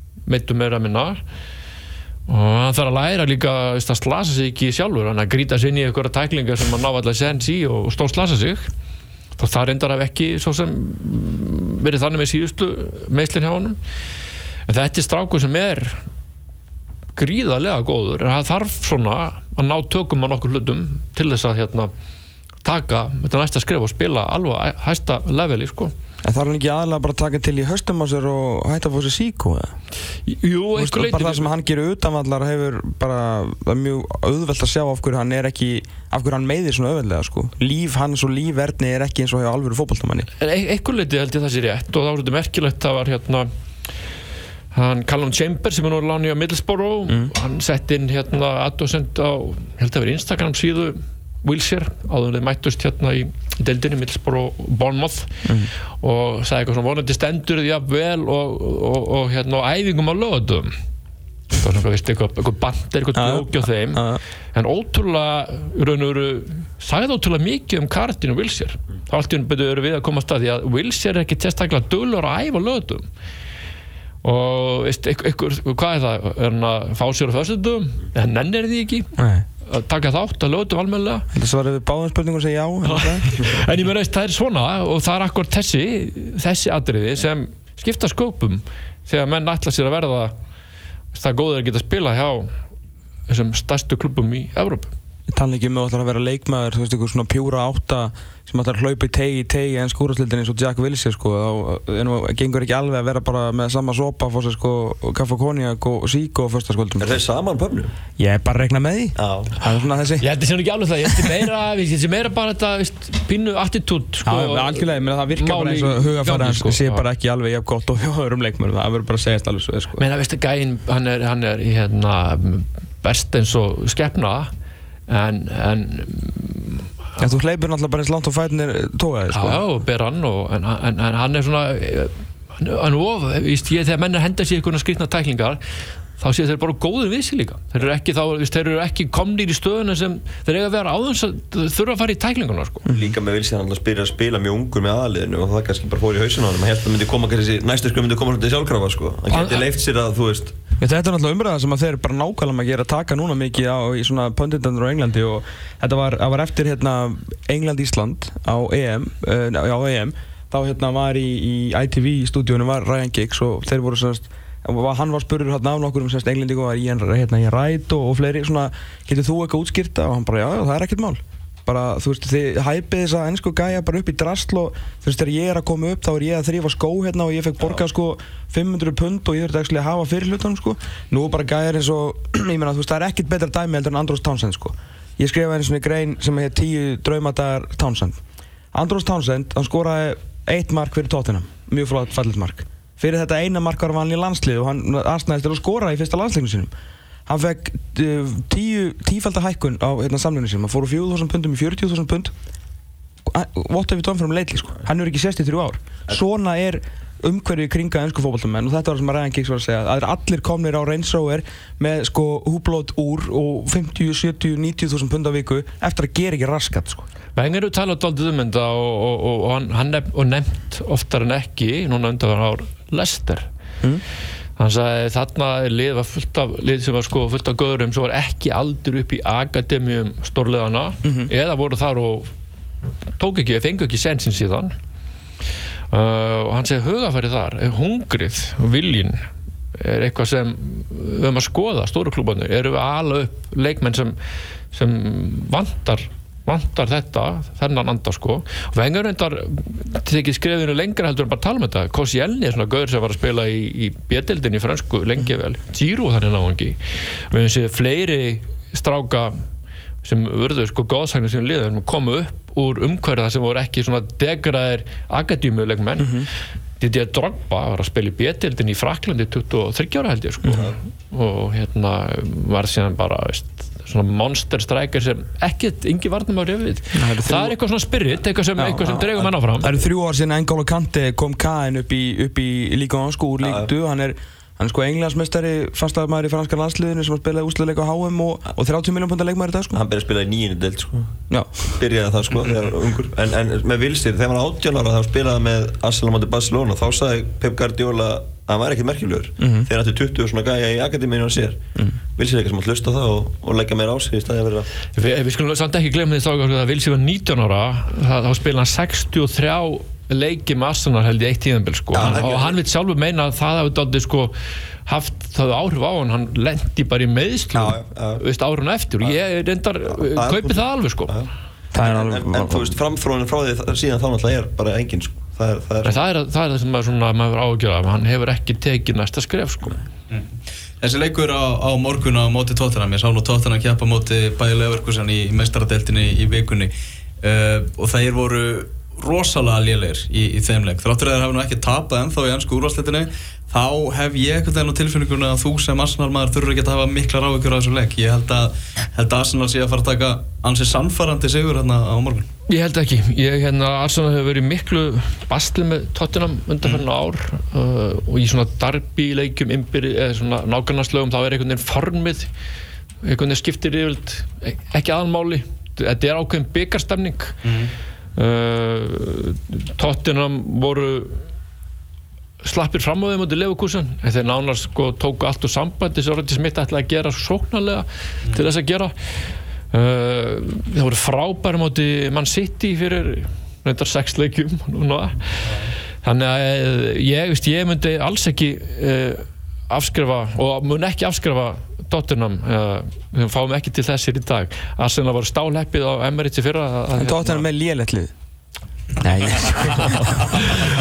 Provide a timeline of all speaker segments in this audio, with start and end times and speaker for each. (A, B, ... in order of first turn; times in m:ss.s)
0:00.2-0:01.2 A
0:02.3-0:08.6 A
0:09.4-0:13.8 A
0:14.7-0:16.0 A
0:17.2-0:21.9 A
0:22.6-0:25.9 A
0:26.2-0:29.8 B
0:30.3-0:31.5 A
0:30.8-0:40.3 B
0:40.4-0:43.5 A
0:44.7-0:55.4 A
0:55.4-0:55.7 B
0:56.0-1:00.7 A
1:01.6-1:04.0 A
1:03.1-1:04.2 B
1:04.5-1:13.0 A
1:14.2-1:19.1 A
1:19.2-1:19.4 B
1:19.6-1:21.3 A
1:21.3-1:23.6 B
1:22.8-1:30.3 A
1:31.1-1:32.5 A
1:33.3-1:34.9 A
1:35.3-1:47.2 B
1:47.0-1:47.9 C
1:48.2-1:50.3 B
1:49.2-1:49.5 C
1:50.2-1:57.0 A
1:54.2-2:00.0 B
2:00.0-2:04.5 A
2:05.1-2:06.8 A
2:07.2-2:09.6 B
2:09.3-2:15.6 A
2:16.2-2:22.9 A
2:22.9-2:30.6 C
2:29.3-2:29.7 A
2:30.8-3:08.2 B
3:08.7-3:16.7 B
3:17.3-3:22.3 B
3:23.3-3:37.0 B
3:37.4-3:43.5 A
3:44.6-3:52.3 A
3:51.0-3:51.3 B
3:53.2-3:54.7 A
3:55.9-4:04.2 A
4:04.7-4:16.8 A
4:17.3-4:19.4 A
4:20.0-4:26.3 A
4:26.0-4:26.3 B
4:26.8-4:39.7 A
4:36.9-4:37.6 B
4:38.6-4:49.8 B
4:43.4-4:43.7 C
4:49.7-4:51.1 C
4:51.7-5:04.7 C
4:59.4-4:59.7 B
5:04.9-5:14.3 A
5:11.9-5:12.6 C
5:14.8-5:21.1 A
5:17.5-5:18.2 C
5:20.0-5:26.0 C
5:21.7-5:22.8 B
5:25.8-5:29.8 A
5:30.8-5:52.3 D
5:52.5-6:02.3 A
6:03.0-6:07.4 A
6:07.4-6:07.7 D
6:08.2-6:11.2 A
6:12.4-6:19.1 A
6:19.7-6:25.5 A
6:26.0-6:37.4 A
6:36.9-6:38.1 B
6:39.0-6:40.4 B
6:39.5-6:39.9 A